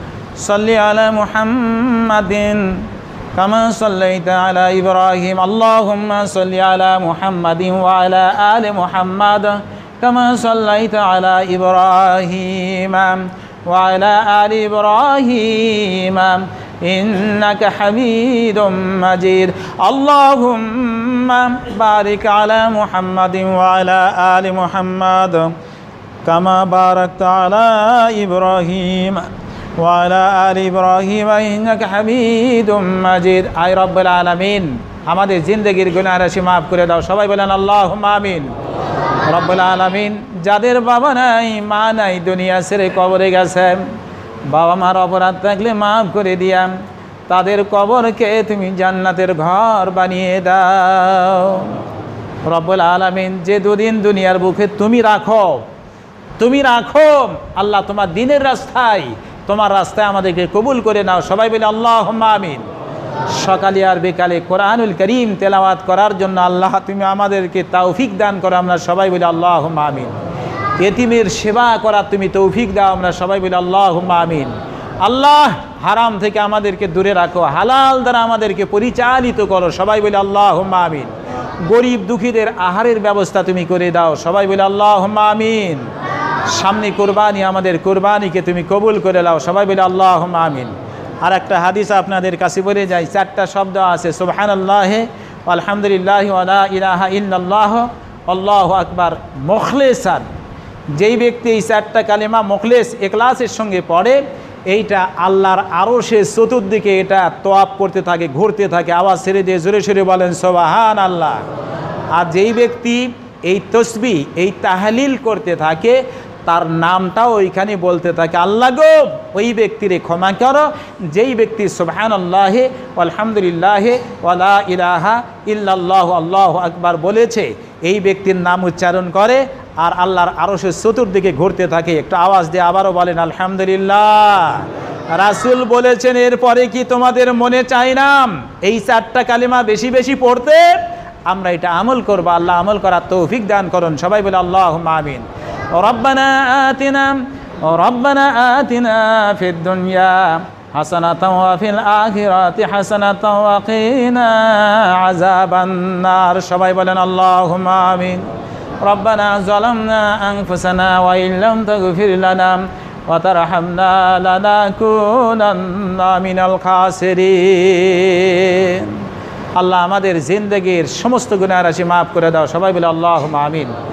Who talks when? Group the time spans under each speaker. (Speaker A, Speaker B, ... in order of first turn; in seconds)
Speaker A: 0.4-25.5, 26.2-29.3, 29.8-38.5, 39.3-43.8, 44.5-46.7, 47.3-51.8, 52.5-55.7, 56.4-62.7, 63.3-70.1, 70.8-81.1, 81.7-85.9, 86.5-100.3, 101.0-111.4, 112.1-140.7, 141.3-145.2, 145.8-158.2, 158.8-169.0, 169.6-173.7